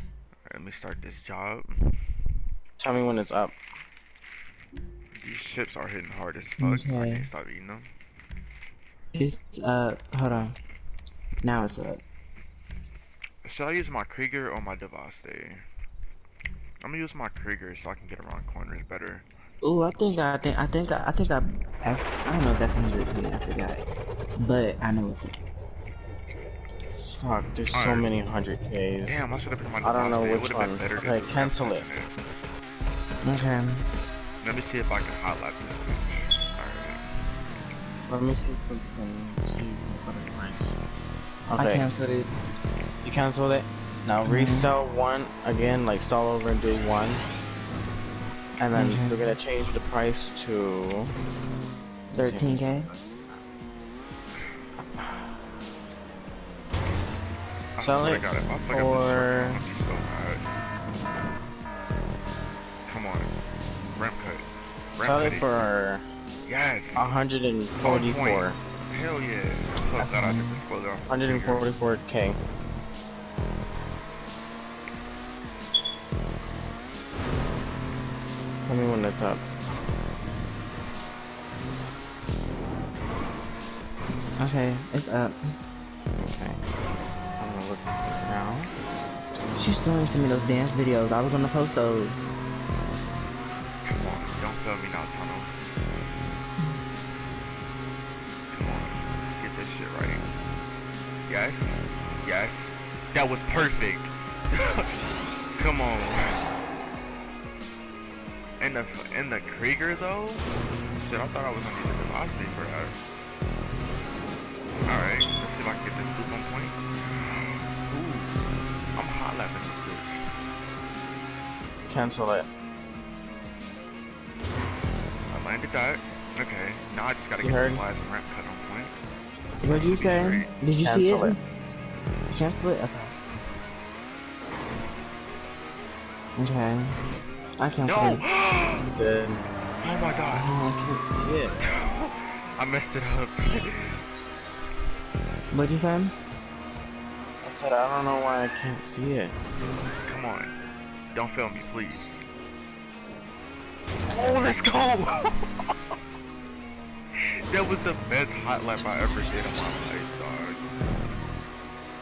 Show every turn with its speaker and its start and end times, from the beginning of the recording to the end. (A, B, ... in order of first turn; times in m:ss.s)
0:00.5-0:01.8 A
0:02.8-0:03.6 B
0:05.2-0:07.9 A
0:06.6-0:07.3 C
0:09.1-0:10.5 C
0:11.4-0:12.0 C
0:13.4-0:15.6 A
0:16.8-0:19.2 A
0:19.6-0:23.9 C
0:24.4-0:25.4 C
0:27.0-0:29.2 B
0:27.7-0:28.1 A
0:29.0-0:32.2 A
0:29.8-0:31.9 B
0:33.2-0:33.8 C
0:34.4-0:37.0 A
0:38.1-0:40.8 B
0:41.5-0:41.9 B
0:41.6-0:42.3 C
0:43.0-0:47.2 B
0:44.2-0:44.7 C
0:48.6-0:51.1 B
0:48.8-0:49.2 C
0:52.1-0:52.9 C
0:52.1-0:53.4 B
0:54.8-0:55.4 B
0:57.8-1:00.4 A
0:57.8-0:59.6 B
1:02.9-1:03.3 A
1:03.9-1:05.5 A
1:05.0-1:06.0 B
1:06.4-1:07.1 A
1:07.0-1:08.6 B
1:07.8-1:11.7 A
1:10.0-1:10.6 C
1:11.1-1:12.4 B
1:18.6-1:19.4 B
1:24.4-1:25.3 C
1:26.2-1:26.6 B
1:27.4-1:28.7 B
1:29.6-1:32.3 C
1:33.8-1:35.6 A
1:38.5-1:40.3 A
1:41.3-1:46.4 A
1:48.6-1:53.0 A
1:54.9-1:58.4 A
1:59.0-2:00.2 A
2:01.9-2:02.5 B
2:05.3-2:08.9 A
2:07.4-2:07.8 B
2:09.6-2:11.4 C
2:09.7-2:10.5 A
2:10.8-2:11.4 B
2:12.3-2:13.1 C
2:16.4-2:16.9 C
2:17.6-2:18.2 C
2:17.8-2:18.8 A
2:18.9-2:19.4 B
2:19.8-2:20.5 A
2:20.3-2:21.6 B
2:21.6-2:24.0 A
2:25.5-2:26.1 C
2:27.4-2:29.3 B
2:30.0-2:30.5 A
2:31.1-2:32.2 A
2:34.1-2:35.7 A
2:37.5-2:40.6 A